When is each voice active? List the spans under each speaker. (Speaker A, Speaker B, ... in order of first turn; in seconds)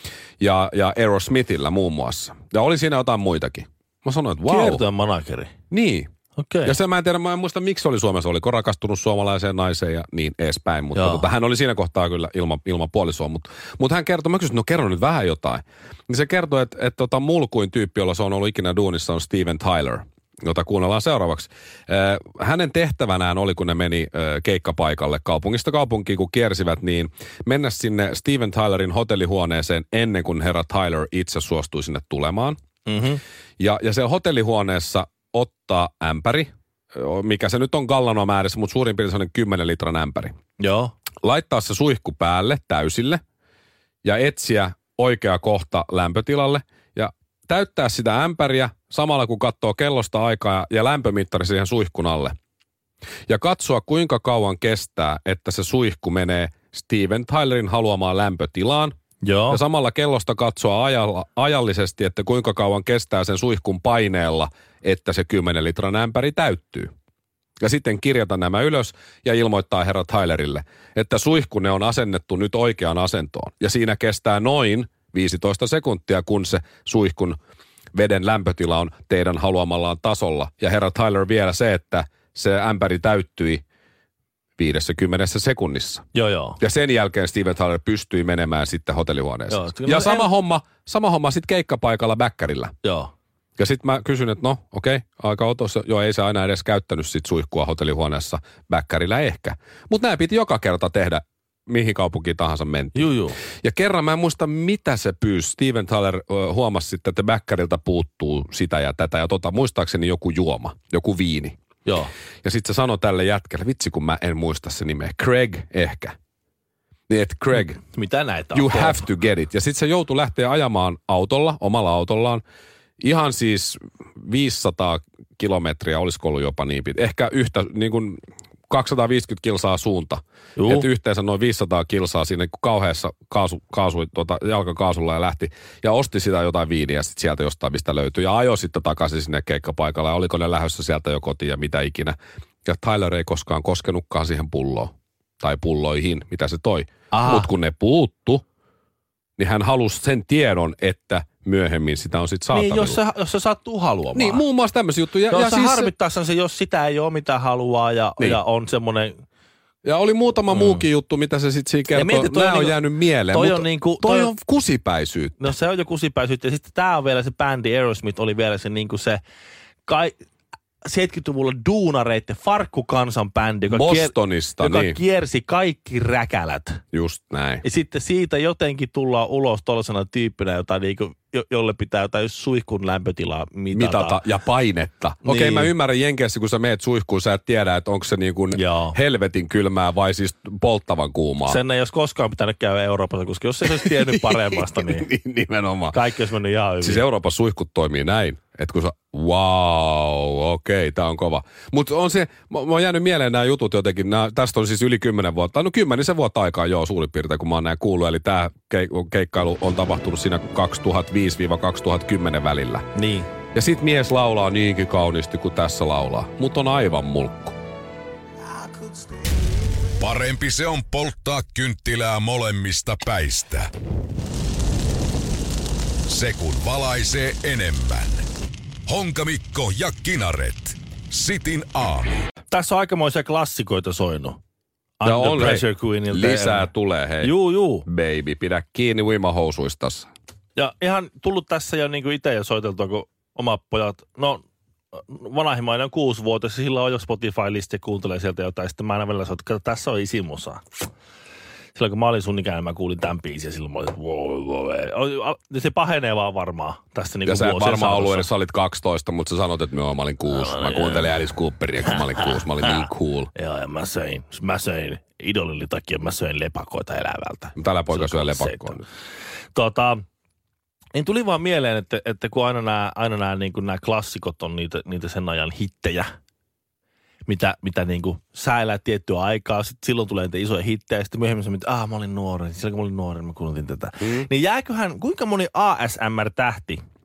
Speaker A: 0.4-4.8, 5.7-6.1, 6.6-32.6, 33.6-40.3, 41.2-43.2, 44.0-52.4, 53.3-58.9, 59.5-66.9, 67.6-77.4, 77.9-83.6, 84.6-86.0, 86.6-92.7, 93.6-103.1, 103.6-111.6, 112.4-116.2, 117.1-117.8, 118.5-122.4, 123.0-148.4, 149.4-153.0, 154.1-155.9, 159.8-165.5, 173.7-175.0, 176.9-177.6, 183.7-191.6, 193.8-196.0, 196.8-212.9, 213.6-217.6, 235.0-240.1, 257.2-263.3, 267.6-268.8, 284.0-284.3
Speaker B: 4.5-5.5, 6.4-6.8, 10.9-11.3, 32.9-33.2, 40.6-40.9, 59.2-59.6, 86.1-86.6, 89.5-90.3, 92.8-93.1, 102.9-103.4, 111.8-112.1, 117.8-119.0, 130.6-130.9, 147.1-147.5, 152.5-154.4, 155.3-159.2, 160.5-160.9, 161.9-164.3, 165.4-169.2, 169.9-170.2, 170.8-176.8, 177.6-184.2, 185.2-185.7, 188.5-189.0, 191.5-195.1, 195.9-197.0, 212.9-213.3, 232.5-234.4, 235.0-236.7, 237.2-237.9, 240.6-250.6, 251.7-258.3, 260.3-261.2, 261.9-268.8, 269.5-270.1, 270.9-276.1, 277.3-286.8
Speaker C: 220.0-223.7, 226.1-228.2, 228.9-232.2